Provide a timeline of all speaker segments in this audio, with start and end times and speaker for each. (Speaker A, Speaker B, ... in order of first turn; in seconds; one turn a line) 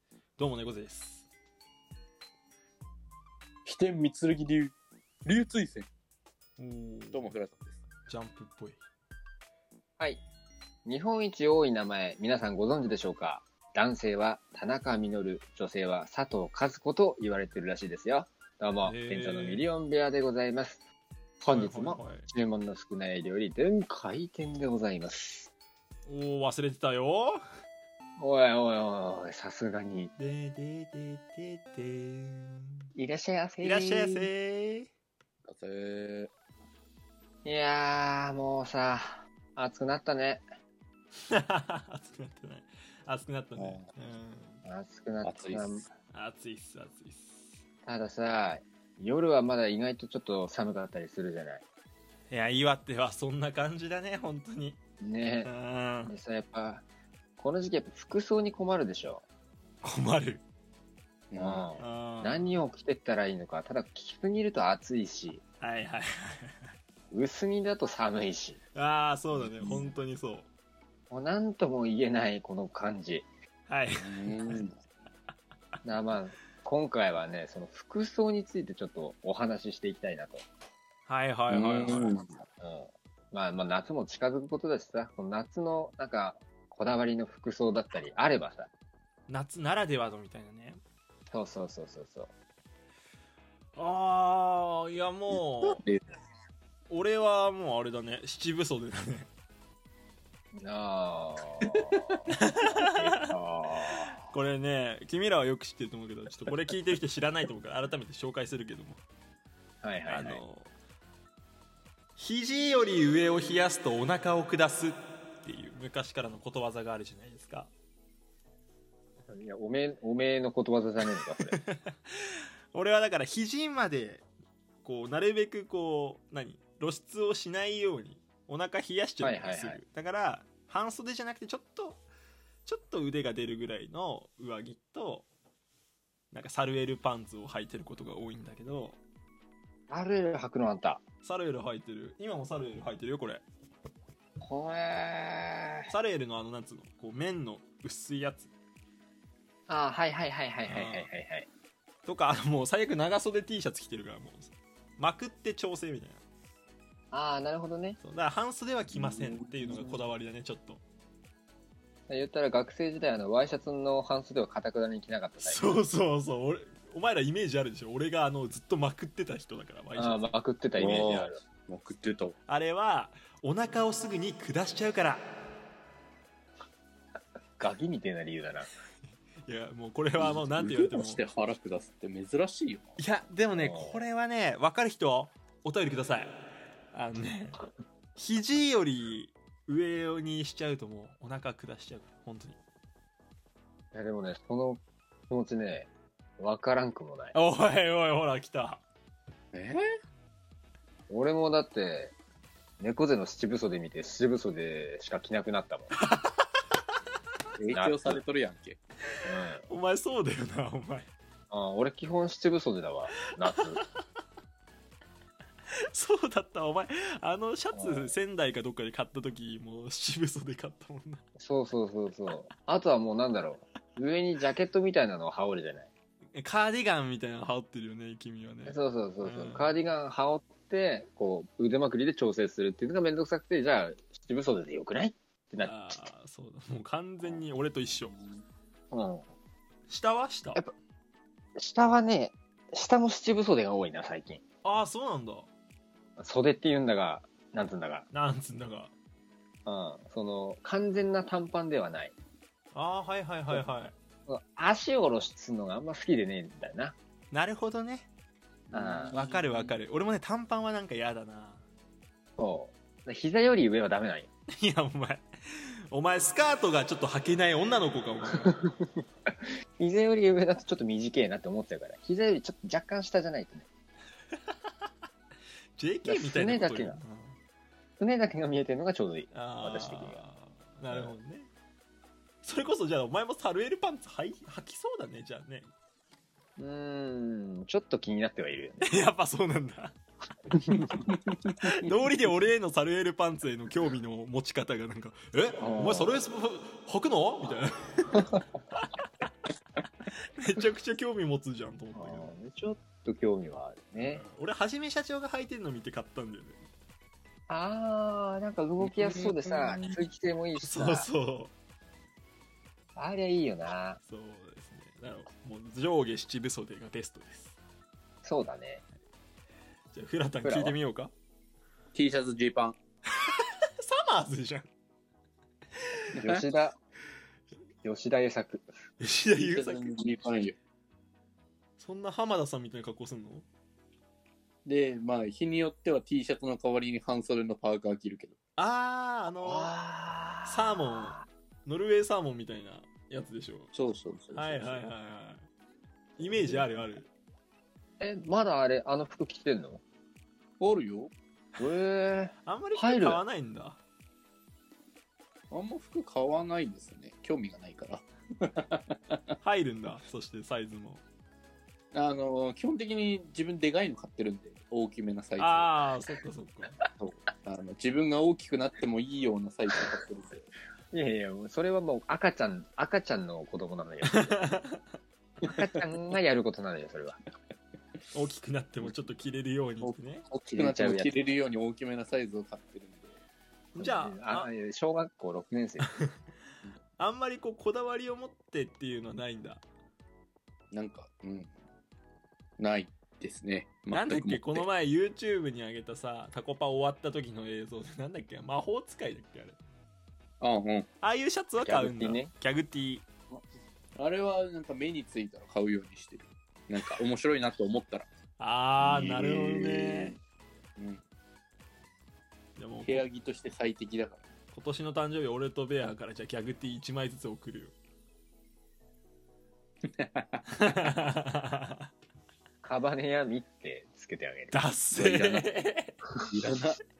Speaker A: 0.4-1.3
Speaker B: 3.6-5.9
Speaker A: 6.6-7.3
Speaker B: 7.1-7.8
Speaker A: 8.1-8.8
Speaker C: 10.8-20.8
Speaker A: 18.8-19.6
Speaker C: 21.4-25.5
Speaker A: 21.5-22.3
Speaker A: 26.1-27.4
Speaker C: 28.2-30.1
Speaker A: 30.2-32.9
Speaker C: 33.0-34.3
Speaker A: 33.6-34.9
Speaker B: 35.4-36.3
Speaker C: 37.4-40.4
Speaker A: 41.3-44.6
Speaker B: 43.6-43.9
Speaker C: 44.6-45.8
Speaker B: 45.2-45.8
Speaker A: 46.1-47.6
Speaker C: 47.9-51.6
Speaker A: 52.3-54.8
Speaker C: 55.0-55.5
Speaker A: 55.4-56.1
Speaker C: 56.1-56.8
Speaker C: 57.4-59.2
Speaker A: 59.8-60.4
Speaker B: 61.3-61.7
Speaker C: 61.4-65.4
Speaker A: 61.8-62.6
Speaker A: 65.6-66.7
Speaker C: 67.1-68.6
Speaker A: 68.7-70.5
Speaker C: 71.1-73.3
Speaker A: 73.7-74.6
Speaker B: 74.0-74.8
Speaker C: 75.8-80.4
Speaker A: 81.1-82.1
Speaker B: 81.5-82.3
Speaker C: 82.6-88.7
Speaker A: 89.3-90.8
Speaker C: 91.3-92.3
Speaker A: 93.8-95.8
Speaker B: 95.3-96.0
Speaker A: 96.9-99.3
Speaker C: 100.5-102.3
Speaker A: 102.2-103.3
Speaker C: 102.8-104.2
Speaker A: 103.9-109.0
Speaker C: 109.8-110.4
Speaker A: 110.1-110.7
Speaker A: 112.2-117.7
Speaker C: 119.3-121.6
Speaker A: 121.1-124.2
Speaker A: 124.8-132.0
Speaker C: 129.2-129.8
Speaker A: 132.7-135.3
Speaker A: 136.3-139.0
Speaker C: 139.9-141.0
Speaker A: 141.2-143.4
Speaker C: 144.4-145.9
Speaker A: 145.9-148.5
Speaker C: 149.7-151.5
Speaker A: 150.7-151.1
Speaker A: 152.0-156.2
Speaker C: 157.1-158.0
Speaker A: 158.0-160.8
Speaker B: 158.9-159.9
Speaker C: 162.1-165.7
Speaker A: 165.4-170.3
Speaker C: 169.9-171.4
Speaker B: 170.8-172.3
Speaker A: 170.9-171.2
Speaker A: 172.5-175.2
Speaker C: 177.6-178.7
Speaker A: 179.4-181.2
Speaker B: 180.2-182.9
Speaker A: 183.0-186.3
Speaker C: 183.5-184.0
Speaker A: 186.9-187.6
Speaker A: 188.2-192.6
Speaker C: 193.9-197.3
Speaker A: 197.3-198.8
Speaker B: 199.5-199.8
Speaker C: 201.1-202.1
Speaker C: 202.8-205.9
Speaker A: 206.0-206.6
Speaker B: 207.6-208.8
Speaker C: 207.7-208.2
Speaker C: 209.2-209.6
Speaker A: 209.7-211.1
Speaker C: 211.5-213.8
Speaker A: 215.9-221.2
Speaker C: 217.7-218.1
Speaker C: 221.4-225.9
Speaker A: 226.3-229.7
Speaker C: 228.7-236.0
Speaker A: 235.6-238.2
Speaker C: 238.9-239.2
Speaker A: 239.9-240.6
Speaker C: 241.6-244.4
Speaker A: 244.6-245.5
Speaker C: 246.2-248.1
Speaker A: 248.1-248.9
Speaker C: 249.7-252.1
Speaker A: 252.7-253.9
Speaker C: 254.3-256.9
Speaker A: 257.3-258.1
Speaker B: 258.7-259.7
Speaker C: 258.7-259.2
Speaker A: 259.1-261.6
Speaker C: 262.4-264.3
Speaker A: 264.5-268.6
Speaker C: 268.4-273.7
Speaker A: 275.8-277.4
Speaker C: 276.0-277.0
Speaker C: 278.0-280.2
Speaker A: 279.3-281.5
Speaker C: 280.9-281.1
Speaker A: 282.4-285.7
Speaker C: 286.6-288.9
Speaker A: 288.8-290.0
Speaker A: 290.6-290.9
Speaker B: 291.1-291.5
Speaker A: 291.6-299.1
Speaker C: 295.6-296.1
Speaker A: 300.1-302.3
Speaker C: 301.9-304.2
Speaker A: 304.1-306.7
Speaker C: 307.5-311.1
Speaker B: 308.8-310.0
Speaker A: 310.6-311.5
Speaker C: 312.9-314.0
Speaker A: 314.0-317.6
Speaker C: 318.2-318.8
Speaker A: 319.9-321.1
Speaker C: 320.4-320.8
Speaker B: 321.9-322.8
Speaker A: 323.2-324.7
Speaker C: 326.1-326.8
Speaker B: 326.2-326.4
Speaker C: 327.8-328.6
Speaker A: 329.0-329.9
Speaker B: 329.3-330.5
Speaker A: 331.8-333.4
Speaker B: 334.6-338.3
Speaker A: 338.6-339.7
Speaker C: 339.4-341.2
Speaker A: 340.4-343.7
Speaker B: 343.7-344.8
Speaker A: 344.3-345.4
Speaker B: 346.2-346.9
Speaker A: 346.2-347.1
Speaker C: 348.0-349.8
Speaker B: 350.6-351.1
Speaker C: 351.6-353.2
Speaker A: 352.4-353.8
Speaker B: 355.5-359.2
Speaker A: 359.4-361.0
Speaker B: 361.9-365.8
Speaker A: 365.4-366.8
Speaker B: 367.0-370.5
Speaker C: 370.9-374.4
Speaker A: 374.1-374.8
Speaker C: 375.4-377.2
Speaker A: 378.1-380.2
Speaker B: 379.8-383.2
Speaker C: 380.5-381.2
Speaker A: 383.7-384.5
Speaker C: 383.8-385.9
Speaker A: 387.0-389.6
Speaker B: 390.7-391.5
Speaker B: 392.6-394.6
Speaker A: 393.9-399.6
Speaker B: 400.4-400.9
Speaker A: 401.0-403.1
Speaker C: 401.6-402.3
Speaker B: 403.9-408.1
Speaker A: 408.4-410.2
Speaker C: 408.8-410.1
Speaker B: 410.8-411.0
Speaker A: 412.6-413.0
Speaker B: 412.8-414.2
Speaker A: 414.5-417.7
Speaker B: 420.0-420.4
Speaker A: 420.5-421.9
Speaker C: 422.6-424.6
Speaker A: 424.5-426.0
Speaker B: 424.9-425.4
Speaker B: 426.2-426.8